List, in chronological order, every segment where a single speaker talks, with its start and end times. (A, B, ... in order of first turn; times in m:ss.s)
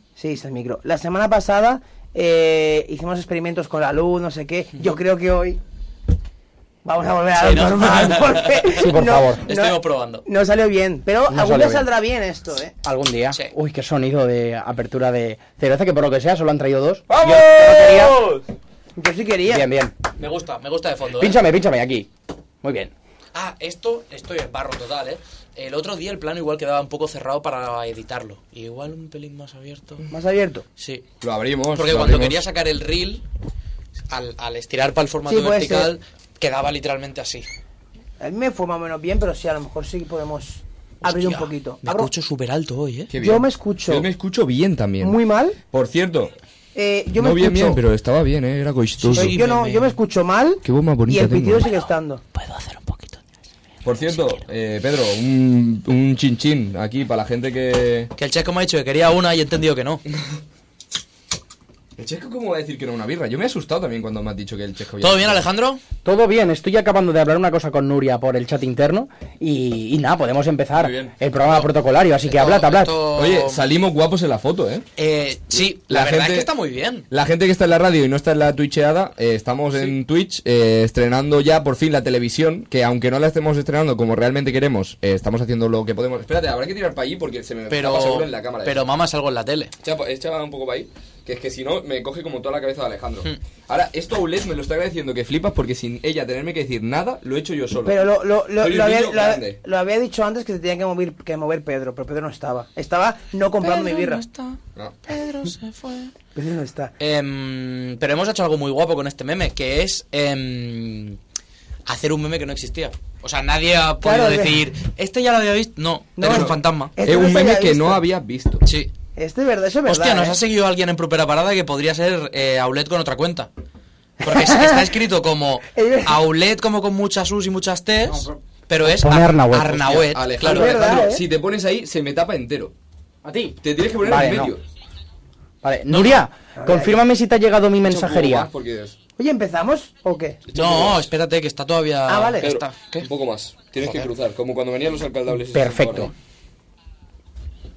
0:00.2-0:05.6 A
0:06.8-0:12.7 A
0:07.4-0:08.9 B
0:08.7-0:09.4 C
0:09.4-0:10.2 B
0:11.3-0:11.8 C
0:12.8-0:18.2 C
0:17.2-0:18.1 D
0:17.6-0:18.3 B
0:19.0-0:19.7 A
0:19.4-0:20.0 C
0:20.2-0:21.4 B
0:21.2-0:22.1 C
0:22.6-0:22.9 C
0:23.3-0:30.1 B
0:30.1-0:30.6 A
0:30.8-0:31.0 B
0:31.2-0:32.4 D
0:31.7-0:33.2 B
0:34.1-0:37.5 B
0:35.2-0:35.9 A
0:38.2-0:42.1 A
0:41.0-0:43.1 B
0:43.1-0:45.2 D
0:43.2-0:44.0 A
0:45.0-0:45.6 A
0:45.7-0:46.3 D
0:46.7-0:47.8 A
0:47.2-0:49.4 D
0:49.0-0:49.9 B
0:49.2-0:52.2 A
0:50.6-0:51.7 D
0:52.3-0:53.2 B
0:53.8-0:58.1 D
0:54.0-0:54.4 B
0:58.2-1:00.0 B
1:02.0-1:05.4 D
1:05.0-1:05.8 B
1:06.0-1:12.9 C
1:10.8-1:11.1 D
1:12.3-1:13.6 B
1:13.1-1:14.8 D
1:15.0-1:17.0 B
1:15.6-1:16.5 D
1:17.1-1:28.8 D
1:27.7-1:29.7 B
1:29.8-1:39.6 D
1:37.8-1:44.2 A
1:43.6-1:46.1 B
1:46.3-1:46.9 A
1:47.0-1:51.2 B
1:51.8-1:56.9 B
1:54.0-1:54.6 A
1:56.2-1:58.0 A
1:56.2-1:58.6 D
1:58.6-1:58.9 B
1:59.2-2:00.4 A
1:59.8-2:03.5 B
2:04.2-2:10.9 B
2:04.2-2:04.9 A
2:05.7-2:06.2 A
2:08.0-2:09.9 C
2:09.7-2:12.7 D
2:10.4-2:11.2 A
2:13.2-2:14.5 C
2:13.6-2:14.6 D
2:15.6-2:18.5 C
2:15.9-2:16.2 B
2:16.6-2:17.0 A
2:17.8-2:18.9 D
2:19.2-2:20.4 A
2:20.5-2:21.0 D
2:20.5-2:23.1 B
2:22.1-2:22.5 A
2:22.4-2:26.1 D
2:25.5-2:26.1 C